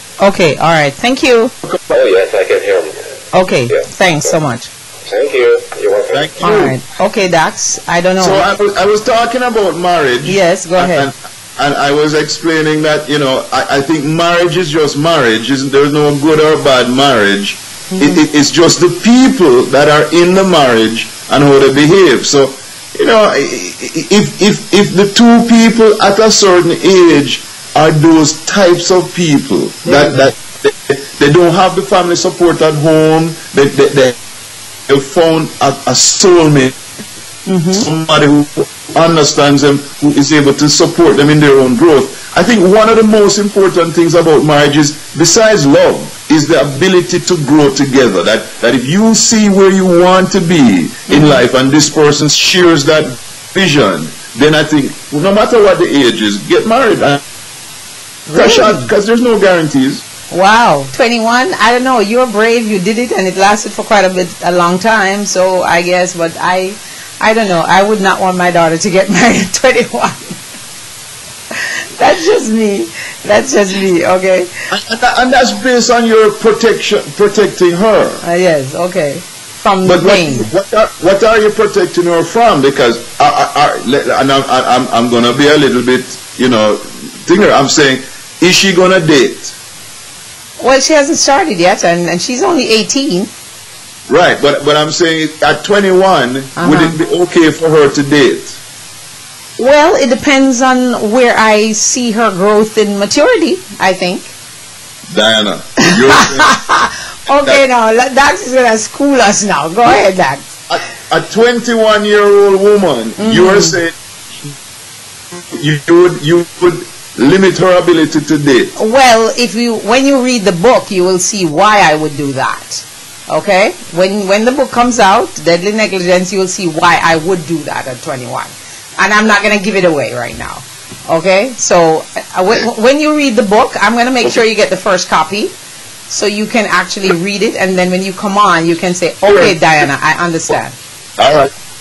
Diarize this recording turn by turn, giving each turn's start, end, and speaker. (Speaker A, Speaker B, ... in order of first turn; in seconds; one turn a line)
Speaker A: 0.2-1.5
Speaker B: 1.9-2.9
Speaker A: 3.3-4.7
Speaker B: 5.1-6.4
Speaker C: 6.1-6.8
Speaker A: 6.4-8.5
Speaker C: 8.2-34.2
Speaker A: 10.2-11.1
Speaker A: 17.9-18.2
Speaker A: 29.8-30.1
Speaker C: 34.9-36.7
Speaker A: 37.5-37.9
Speaker C: 37.7-57.2
Speaker A: 51.1-51.4
Speaker A: 58.3-58.9
Speaker C: 58.3-60.0
Speaker A: 60.3-70.4
Speaker A: 71.5-74.5
Speaker C: 74.7-78.2
Speaker A: 78.2-80.5
Speaker C: 79.8-89.5
Speaker A: 90.6-93.3
Speaker C: 94.1-98.6
Speaker A: 96.5-97.0
Speaker A: 99.6-104.3
Speaker C: 105.1-106.5
Speaker A: 105.8-110.5
Speaker C: 110.7-114.5
Speaker A: 113.2-113.8
Speaker C: 115.3-118.7
Speaker A: 118.8-135.5
Speaker A: 136.1-140.7
Speaker C: 139.2-139.6
Speaker C: 141.2-141.5